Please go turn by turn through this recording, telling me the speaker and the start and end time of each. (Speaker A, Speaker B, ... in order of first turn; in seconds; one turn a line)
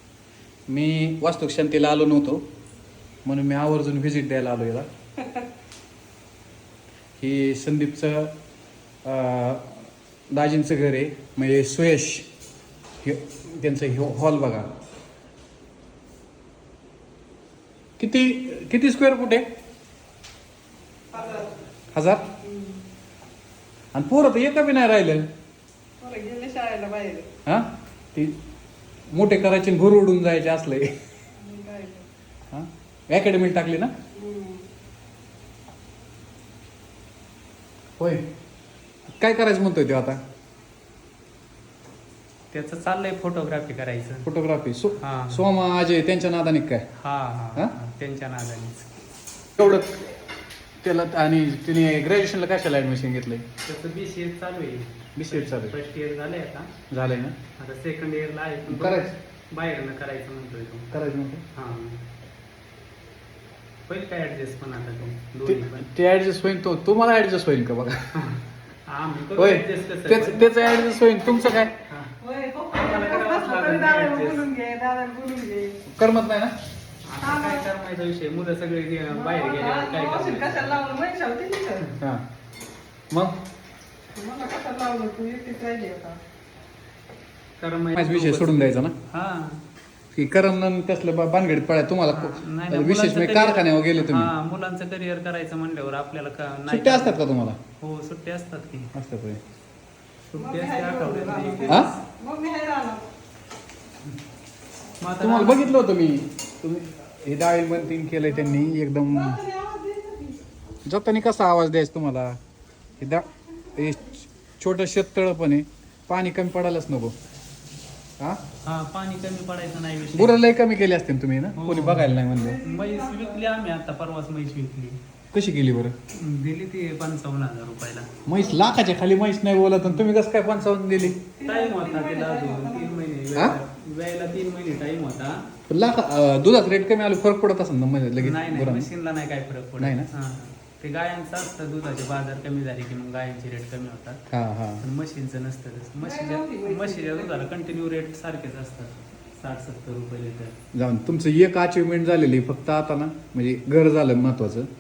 Speaker A: 0.7-2.4
Speaker A: 3.2-4.9
Speaker A: 7.2-8.3
Speaker A: 9.0-12.3
Speaker A: 13.0-14.7
Speaker A: 18.0-19.5
Speaker B: 21.1-21.5
Speaker A: 21.9-22.2
Speaker B: 22.4-22.8
Speaker A: 23.9-25.3
Speaker B: 26.0-27.3
Speaker A: 27.4-28.4
Speaker A: 29.1-30.9
Speaker B: 31.4-32.1
Speaker A: 32.5-33.9
Speaker B: 34.1-34.7
Speaker A: 38.0-38.2
Speaker A: 39.1-40.2
Speaker C: 42.5-44.3
Speaker A: 44.2-46.8
Speaker C: 45.0-45.4
Speaker C: 47.0-49.0
Speaker A: 49.6-50.1
Speaker A: 50.8-53.4
Speaker C: 53.6-56.7
Speaker A: 55.1-55.7
Speaker A: 56.9-57.4
Speaker C: 57.6-60.9
Speaker A: 58.7-59.1
Speaker A: 60.9-61.4
Speaker C: 61.5-62.0
Speaker C: 63.9-65.9
Speaker A: 65.5-68.1
Speaker C: 68.1-70.6
Speaker A: 69.3-71.7
Speaker C: 71.9-72.1
Speaker B: 72.2-75.8
Speaker C: 72.7-74.5
Speaker A: 75.8-76.5
Speaker C: 77.0-80.8
Speaker B: 77.2-77.7
Speaker B: 79.1-81.9
Speaker A: 82.0-82.2
Speaker B: 84.1-86.2
Speaker C: 87.6-89.6
Speaker A: 87.9-88.9
Speaker A: 90.1-94.3
Speaker C: 92.1-97.2
Speaker A: 96.7-97.6
Speaker C: 97.8-98.9
Speaker A: 98.9-99.4
Speaker C: 100.3-102.0
Speaker B: 100.4-103.1
Speaker C: 105.0-105.8
Speaker A: 105.2-109.4
Speaker B: 109.1-110.5
Speaker A: 110.8-112.4
Speaker A: 113.0-117.1
Speaker C: 118.6-120.4
Speaker A: 120.1-122.6
Speaker C: 121.5-125.0
Speaker B: 122.3-123.4
Speaker A: 125.3-125.9
Speaker C: 126.1-128.1
Speaker A: 128.2-131.2
Speaker C: 131.2-135.4
Speaker B: 131.4-133.0
Speaker A: 135.7-138.9
Speaker C: 138.2-144.2
Speaker A: 139.8-140.1
Speaker A: 144.3-144.8
Speaker C: 144.8-150.6
Speaker B: 146.0-147.5
Speaker A: 150.7-154.7